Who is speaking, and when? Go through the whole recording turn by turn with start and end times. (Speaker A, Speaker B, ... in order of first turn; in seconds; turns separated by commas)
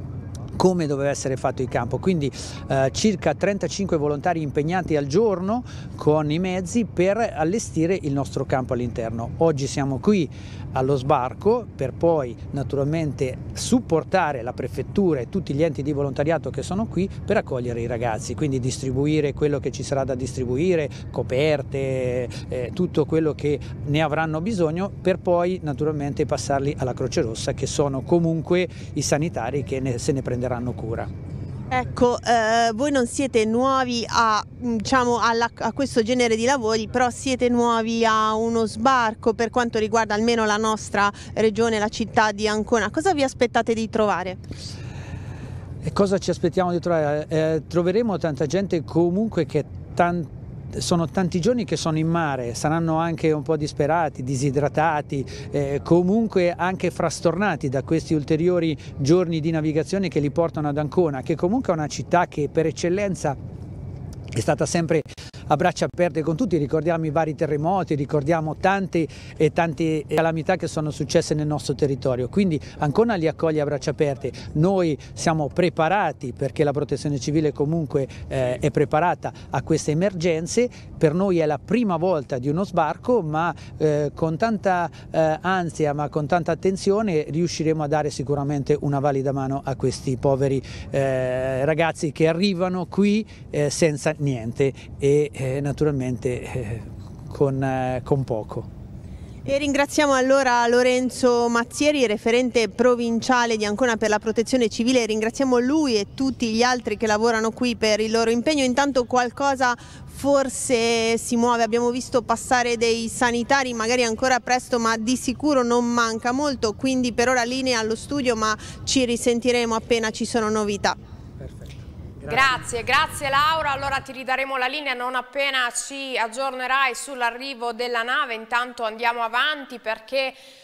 Speaker A: 0.6-31.1, Speaker B: 31.7-44.4, Speaker A: 45.8-63.4, Speaker A: 64.3-98.7, Speaker B: 99.5-121.0, Speaker A: 121.4-122.6, Speaker C: 122.3-130.4